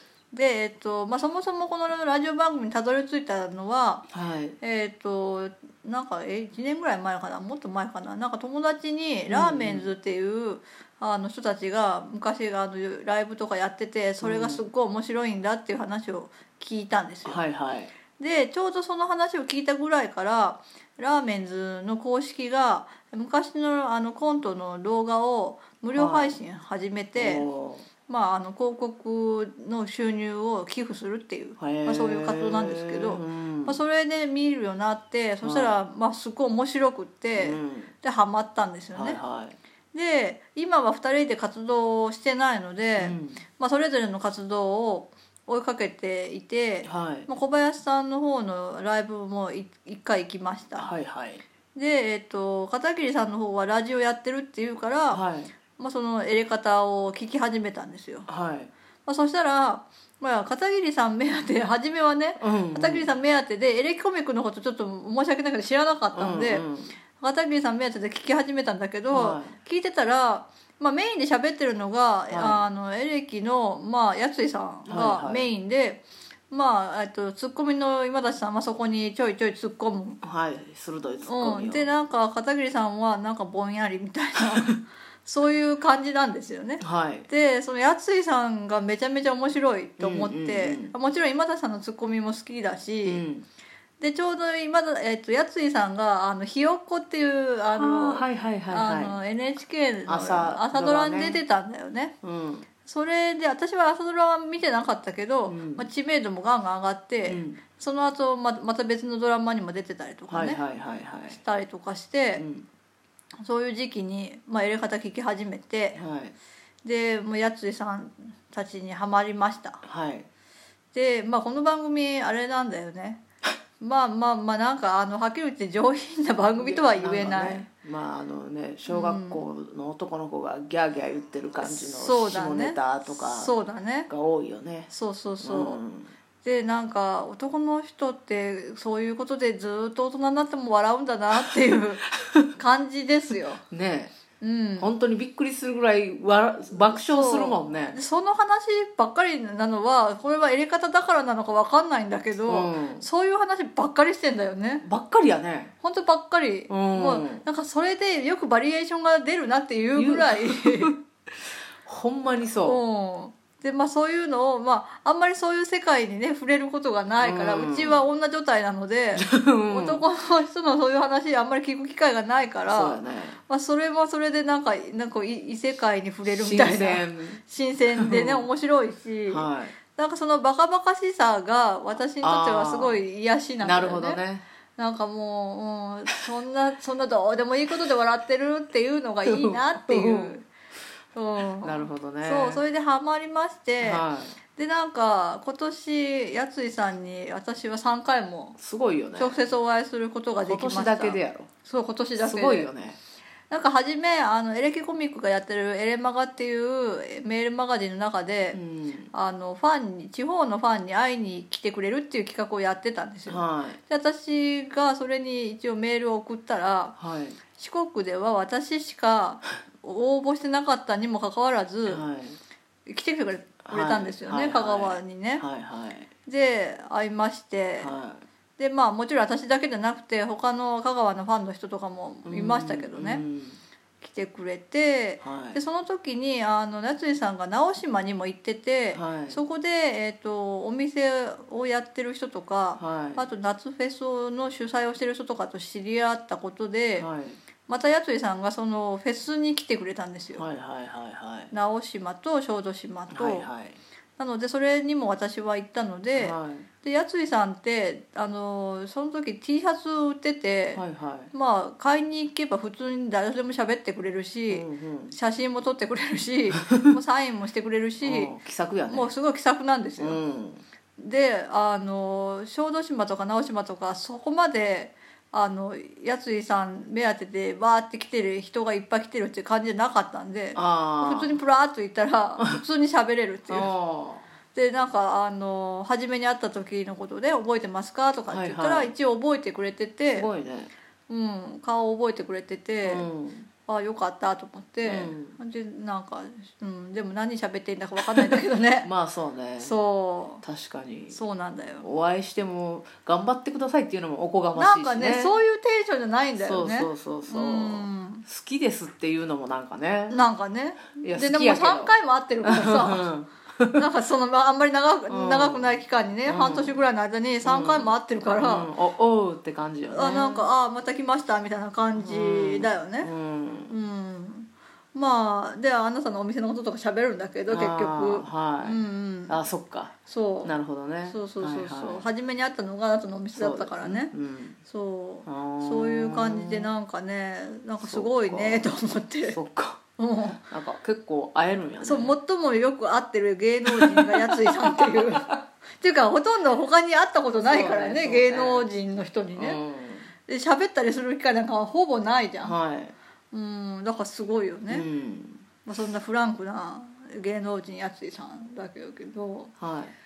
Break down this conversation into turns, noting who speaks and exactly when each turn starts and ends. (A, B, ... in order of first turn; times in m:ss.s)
0:00.3-0:04.1 A
0:04.1-0:04.6 B
0:04.6-0:17.4 A
0:09.3-0:09.9 B
0:14.2-0:14.7 B
0:17.2-0:17.9 B
0:18.2-0:27.5 A
0:25.9-0:26.4 B
0:27.2-0:27.9 B
0:28.1-0:39.2 A
0:31.6-0:33.8 B
0:35.4-0:35.8 B
0:37.4-0:37.9 B
0:38.9-0:39.6 B
0:39.9-0:50.9 A
0:43.0-0:43.4 B
0:46.8-0:47.3 B
0:50.8-0:51.4 B
0:51.7-0:58.3 A
0:55.1-0:55.5 B
0:58.3-0:58.7 B
0:59.0-1:20.2 A
1:02.4-1:03.1 B
1:06.1-1:07.0 B
1:09.1-1:09.6 B
1:12.3-1:12.6 B
1:14.9-1:15.5 B
1:20.2-1:21.9 B
1:21.2-1:33.2 A
1:24.4-1:24.7 B
1:26.8-1:27.3 B
1:30.0-1:30.9 B
1:33.0-1:33.4 B
1:34.0-1:42.2 A
1:37.7-1:39.2 B
1:40.1-1:41.4 B
1:42.2-1:42.7 B
1:42.8-1:50.6 A
1:45.4-1:45.9 B
1:47.2-1:47.6 B
1:50.3-1:51.4 B
1:51.3-1:52.4 A
1:52.4-1:52.7 B
1:53.4-1:56.0 A
1:55.9-1:56.3 B
1:56.8-1:59.8 A
1:59.8-2:00.3 B
2:00.9-2:03.2 A
2:03.8-2:07.7 A
2:06.6-2:13.5 B
2:08.9-2:09.4 A
2:11.6-2:14.1 A
2:14.1-2:14.9 B
2:14.9-2:15.8 A
2:15.4-2:16.1 B
2:16.4-2:22.0 A
2:22.2-2:22.4 B
2:22.6-2:23.6 A
2:23.7-2:24.1 B
2:24.4-2:24.9 A
2:24.8-2:28.0 B
2:26.7-2:34.8 A
2:32.4-2:33.0 B
2:34.8-2:35.7 B
2:35.8-2:40.9 A
2:36.7-2:37.4 B
2:40.0-2:41.0 B
2:41.8-2:42.8 B
2:42.6-3:04.2 A
2:47.2-2:48.0 B
2:49.1-2:50.0 B
2:52.6-2:53.4 B
2:56.2-2:57.4 B
2:57.9-2:58.5 B
2:59.3-2:59.7 B
3:02.2-3:03.0 B
3:03.6-3:04.4 B
3:04.8-3:10.4 A
3:09.2-3:10.4 B
3:11.1-3:18.6 A
3:11.6-3:12.6 B
3:13.8-3:14.4 B
3:18.6-3:19.4 B
3:19.2-3:22.7 A
3:20.4-3:21.5 B
3:22.2-3:23.0 B
3:23.5-3:28.6 A
3:28.5-3:29.1 B
3:29.1-3:36.9 A
3:33.3-3:33.8 B
3:37.0-3:37.4 B
3:37.6-3:42.0 A
3:41.9-3:42.4 B
3:42.9-3:45.5 A
3:43.6-3:46.1 B
3:46.3-3:47.9 A
3:47.8-3:48.2 B
3:48.6-3:53.2 A
3:52.2-3:53.6 B
3:54.0-4:07.1 A
3:55.2-3:55.6 B
3:58.9-3:59.4 B
4:02.8-4:03.3 B
4:07.0-4:07.4 B
4:07.7-4:10.4 A
4:10.4-4:11.5 B
4:11.5-4:13.5 A
4:13.1-4:13.8 B
4:14.2-4:28.4 A
4:16.2-4:16.7 B
4:20.7-4:21.3 B
4:24.5-4:25.2 B
4:28.0-4:29.1 B
4:28.9-4:30.2 A
4:30.0-4:30.6 B
4:31.0-4:43.7 A
4:40.5-4:41.4 B
4:43.5-4:44.3 B
4:44.5-4:50.3 A
4:48.3-4:48.9 B
4:50.1-4:50.7 B
4:51.1-4:53.1 A
4:52.8-4:53.5 B
4:53.7-4:58.9 A
4:54.8-4:55.4 B
4:58.3-4:59.8 B
4:59.6-5:00.4 A
5:00.4-5:01.2 B
5:01.1-5:01.9 A
5:01.8-5:05.4 B
5:04.6-5:08.2 A
5:06.4-5:10.2 B
5:10.1-5:13.1 A
5:11.0-5:13.8 B
5:13.8-5:18.7 A
5:15.1-5:16.8 B
5:17.4-5:20.5 B
5:19.9-5:23.1 A
5:21.9-5:23.7 B
5:23.7-5:29.4 A
5:27.5-5:32.1 B
5:30.1-5:30.5 A
5:31.1-5:34.1 A
5:33.3-5:34.6 B
5:34.7-5:39.4 A
5:35.2-5:36.7 B
5:37.8-5:38.7 B
5:39.3-5:39.8 B
5:40.0-5:40.4 A
5:40.4-5:42.2 B
5:41.8-5:49.6 A
5:43.6-5:45.4 B
5:47.4-5:48.7 B
5:49.4-5:50.1 B
5:50.3-5:52.6 A
5:52.4-5:52.9 B
5:53.3-5:54.9 A
5:54.7-5:55.4 B
5:55.6-5:59.5 A
5:59.6-5:59.9 B